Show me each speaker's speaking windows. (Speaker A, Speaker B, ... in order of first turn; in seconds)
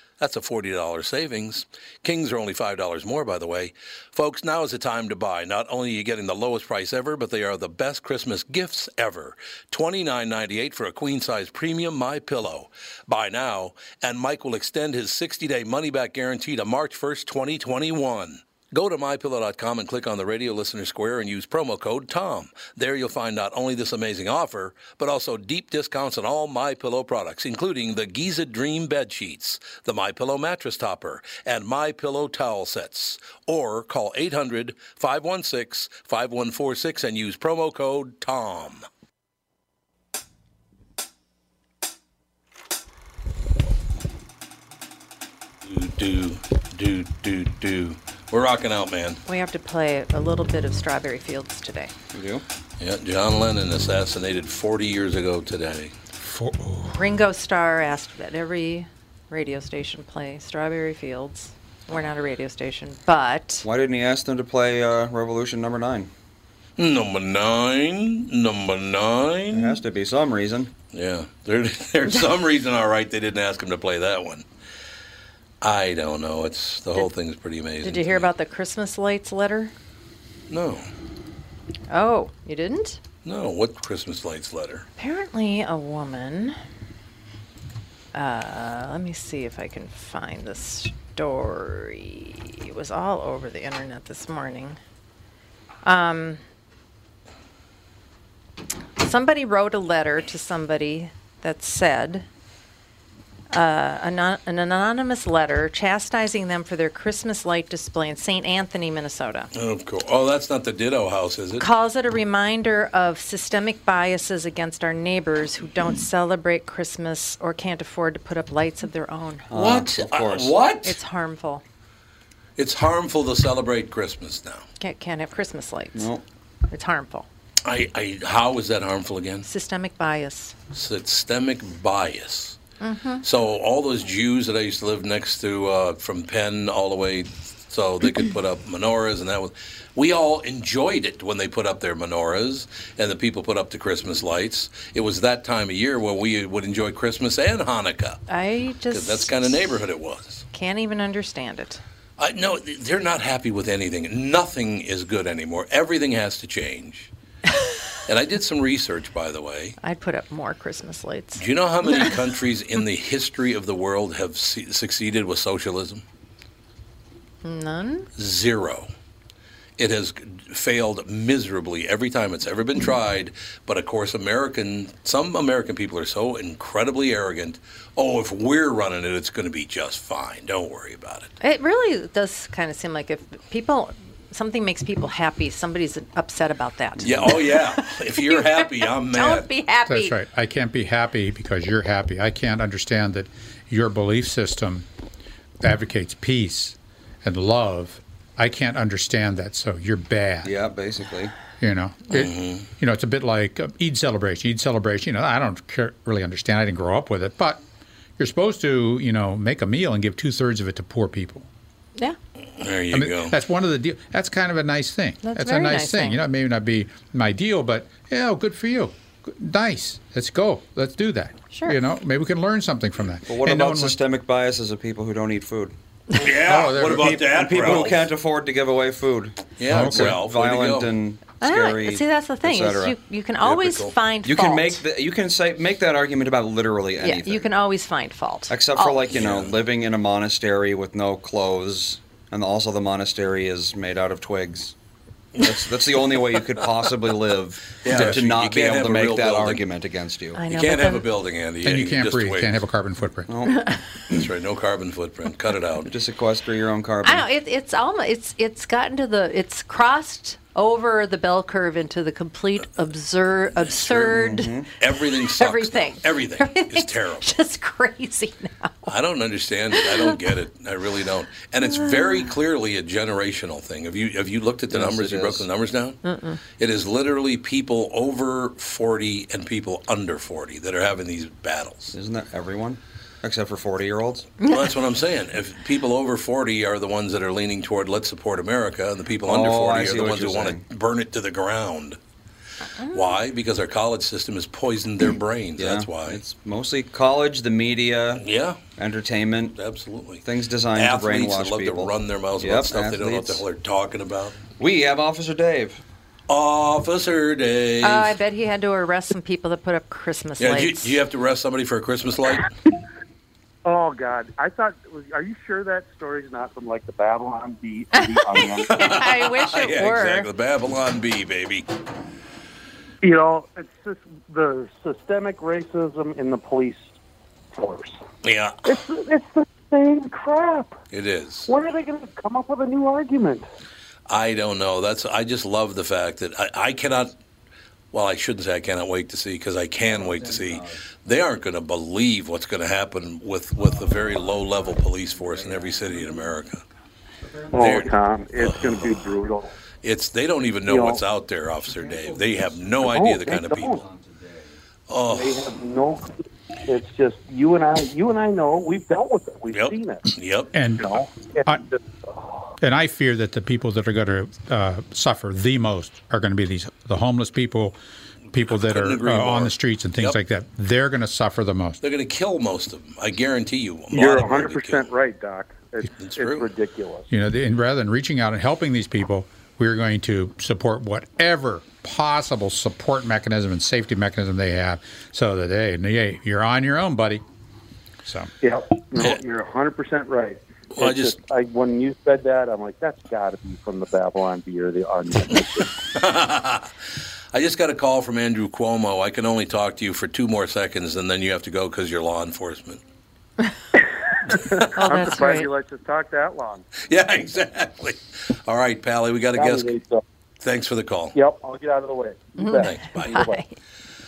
Speaker A: 0.2-38.8, 45.6-49.2, 52.8-55.9, 66.8-69.8, 70.9-74.5, 75.6-78.3, 80.5-80.8, 83.2-84.9, 109.5-111.7, 119.5-121.0, 122.6-124.6, 127.6-129.4, 130.7-132.6, 133.2-148.2, 148.9-150.4, 152.2-157.1, 158.1-159.8, 161.4-166.0, 168.2-168.9, 169.8-181.3, 187.0-189.5, 202.1-202.6, 212.6-213.3, 226.2-228.1, 229.6-230.9, 233.4-233.9, 239.1-239.5, 247.8-249.6, 250.5-252.6, 254.1-255.9, 263.8-264.1, 264.8-267.3, 268.9-276.0, 276.6-281.9, 284.5-292.0, 292.9-296.2, 298.2-298.6, 299.6-300.2, 300.7-304.4, 306.3-308.1, 310.4-312.5, 318.7-321.7, 328.2-328.8, 330.9-331.5, 334.1-337.1, 337.9-346.6, 347.5-349.0, 349.8-353.8, 354.9-355.5, 359.5-360.5, 368.5-370.2, 371.8-374.9, 376.0-376.5, 390.7-391.2, 395.9-396.7, 397.3-402.8, 406.9-409.8, 410.4-411.1, 412.6-413.2
Speaker B: 49.3-51.9, 56.9-63.7, 77.8-79.7, 81.9-83.0, 85.0-86.6, 88.1-94.8, 95.8-96.4, 99.0-102.2, 103.5-109.5, 111.6-119.5, 120.8-121.6, 124.8-126.1, 126.7-127.3, 129.4-130.5, 132.8-133.2, 148.3-149.5, 150.5-151.8, 159.8-161.4, 167.4-168.1, 181.4-190.2, 215.2-216.2, 231.4-234.8, 237.0-239.0, 250.3-251.1, 257.0-264.5, 265.4-268.9, 276.0-276.4, 284.4-284.7, 307.8-310.9, 318.7-320.3, 404.8-405.5, 412.4-413.5
Speaker C: 52.1-52.4, 63.6-66.1, 69.5-70.7, 119.5-120.6, 125.9-126.2, 200.4-201.3, 223.3-225.7, 226.8-232.9, 234.2-237.5, 238.5-244.7, 245.4-250.4, 253.3-254.2, 255.8-257.2, 264.1-264.7, 274.7-275.5, 281.9-284.3, 289.2-290.6, 295.6-298.2, 298.8-299.6, 300.2-303.4, 304.6-305.8, 339.8-340.8, 343.6-346.4, 347.2-347.7, 351.7-352.8, 353.7-354.5
Speaker D: 56.2-57.1, 189.9-194.9, 195.6-200.5, 201.6-207.6, 208.2-211.4, 212.9-224.0, 226.4-227.8, 229.7-230.2, 251.6-253.3, 360.5-361.6, 362.6-367.8, 368.3-371.8, 377.1-387.2, 388.0-388.3
Speaker E: 313.6-318.8, 323.0-327.0, 327.5-328.0, 328.6-330.8, 331.5-333.5, 347.5-349.5, 350.6-351.0, 352.8-353.8, 355.1-360.1, 360.8-362.5, 373.9-377.1, 388.4-395.7, 404.3-406.7, 409.3-410.0, 411.1-413.4